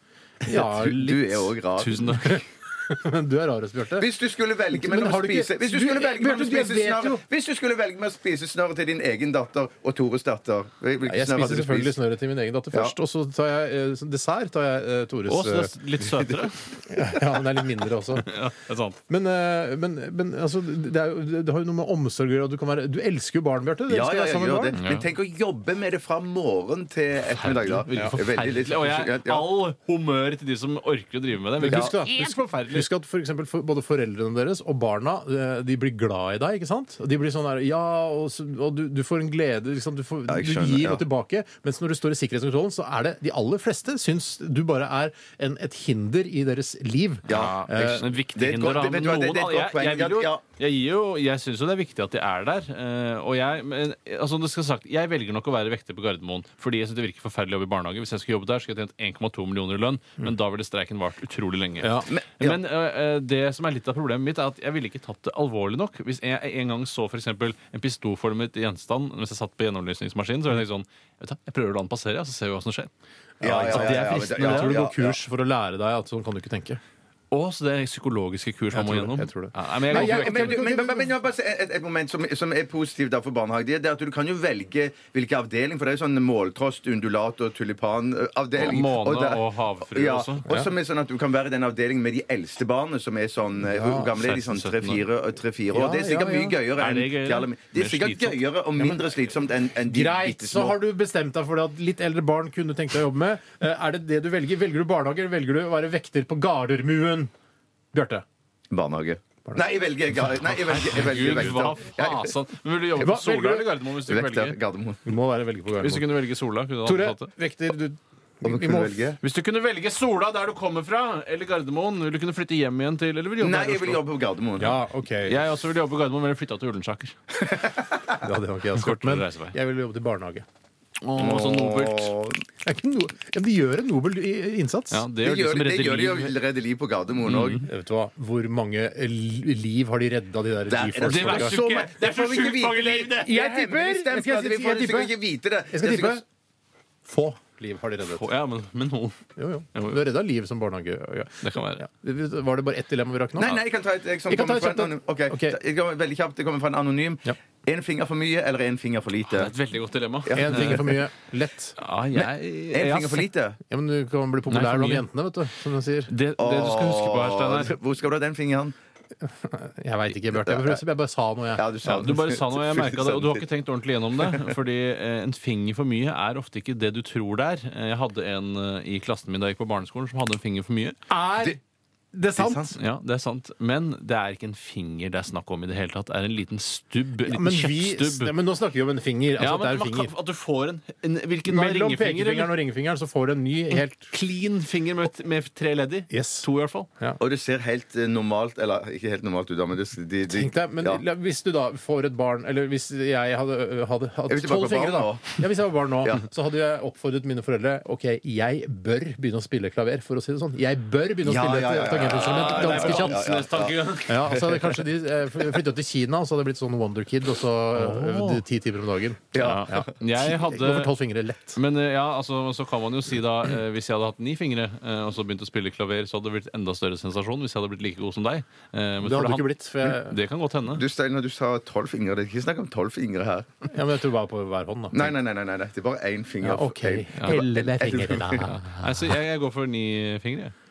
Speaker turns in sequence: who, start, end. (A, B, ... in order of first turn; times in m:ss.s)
0:00.4-0:01.5 A
0:00.5-0:02.2 B
0:01.8-0:02.4 C
0:02.2-0:04.1 A
0:04.0-0:11.9 B
0:04.7-0:07.2 A
0:11.0-0:15.7 A
0:15.3-0:16.6 C
0:16.8-0:18.3 A
0:18.2-0:19.0 C
0:19.1-0:24.8 A
0:23.9-0:29.4 B
0:24.8-0:25.0 C
0:27.4-0:32.9 C
0:27.9-0:28.2 A
0:31.6-0:48.0 A
0:40.3-0:41.0 B
0:47.3-0:50.4 B
0:47.3-1:12.9 C
1:01.8-1:02.1 A
1:02.1-1:02.6 B
1:13.4-1:15.2 B
1:13.4-1:16.8 A
1:13.5-1:14.7 C
1:17.3-1:20.6 C
1:18.7-1:21.1 A
1:19.9-1:40.8 B
1:28.6-1:30.5 C
1:33.7-1:34.1 A
1:34.2-1:35.0 C
1:35.7-1:36.6 A
1:36.8-1:38.4 C
1:39.9-1:47.3 A
1:47.9-1:48.2 A
1:48.7-1:52.3 B
1:50.6-1:54.6 C
1:53.0-1:53.7 A
1:54.0-1:55.0 B
1:55.0-1:56.1 A
1:55.8-1:57.3 C
1:56.8-1:59.0 A
1:58.4-1:59.2 B
1:59.2-2:04.0 C
2:03.4-2:04.8 B
2:04.6-2:05.4 A
2:05.2-2:07.2 C
2:07.4-2:08.1 B
2:08.2-2:10.4 A
2:08.8-2:09.6 C
2:11.0-2:12.1 C
2:11.2-2:12.4 B
2:12.6-2:15.0 A
2:14.9-2:16.3 C
2:15.2-2:17.6 B
2:17.2-2:17.7 C
2:17.6-2:21.6 A
2:20.7-2:26.2 B
2:21.0-2:23.4 C
2:23.2-2:25.1 A
2:25.7-2:26.2 A
2:27.0-2:28.2 A
2:28.1-2:29.2 C
2:29.4-2:33.6 A
2:29.7-2:30.0 C
2:31.4-2:31.8 C
2:33.4-2:39.5 B
2:34.3-2:35.6 A
2:39.3-2:41.0 C
2:40.3-2:40.9 B
2:40.3-2:41.8 A
2:41.8-2:43.3 C
2:42.7-2:43.6 B
2:43.7-2:46.1 A
2:44.5-2:45.0 C
2:46.1-2:47.8 C
2:46.4-2:48.7 B
2:49.2-2:51.7 A
2:50.4-2:50.8 B
2:51.6-2:53.4 B
2:51.8-3:01.0 C
2:54.2-2:54.4 B
3:01.1-3:01.6 A
3:02.1-3:02.7 A
3:02.4-3:02.7 B
3:02.8-3:08.3 C
3:07.2-3:10.1 A
3:09.4-3:12.5 C
3:11.4-3:14.1 A
3:14.1-3:16.9 C
3:16.1-3:16.4 A
3:17.2-3:21.0 B
3:20.3-3:33.3 A
3:24.3-3:25.4 B
3:31.2-3:34.8 B
3:32.0-3:34.4 C
3:34.0-3:41.6 A
3:37.7-3:38.4 C
3:39.3-3:40.3 B
3:39.4-3:40.9 C
3:41.5-3:50.8 C
3:49.0-3:50.2 A
3:50.7-3:53.7 B
3:53.7-3:55.1 A
3:54.9-3:58.5 B
3:56.4-3:58.9 A
3:57.2-3:57.4 C
3:58.4-4:00.5 C